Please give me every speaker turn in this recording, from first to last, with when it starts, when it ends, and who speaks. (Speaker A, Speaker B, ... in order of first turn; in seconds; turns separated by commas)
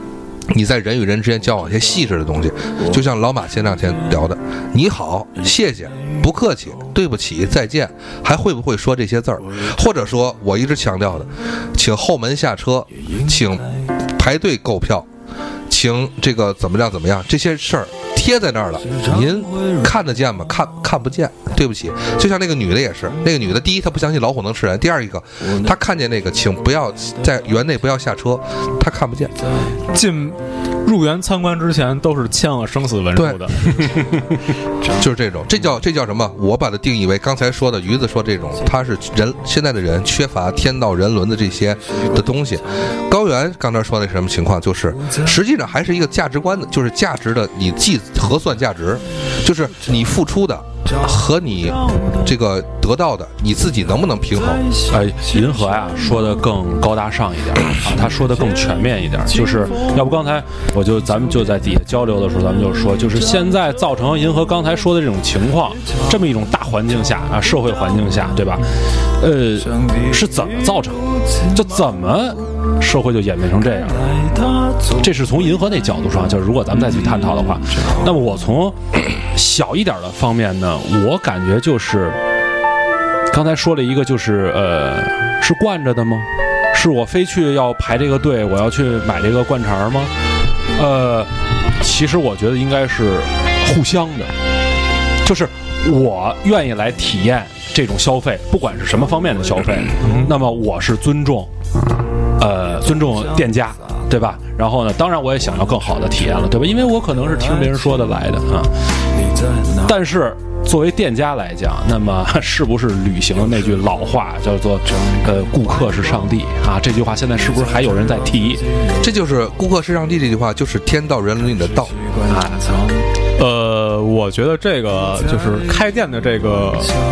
Speaker A: 0.5-15.1, Speaker A: 15.7-29.4, Speaker B: 29.9-33.8, Speaker A: 33.1-33.4, Speaker A: 35.0-54.7, Speaker C: 54.9-74.1, Speaker C: 75.0-82.2, Speaker C: 83.3-90.1, Speaker C: 90.7-94.3, Speaker C: 95.2-101.5, Speaker C: 102.4-108.9, Speaker C: 109.8-118.7, Speaker A: 119.0-122.0, Speaker C: 122.2-122.7, Speaker B: 123.4-127.0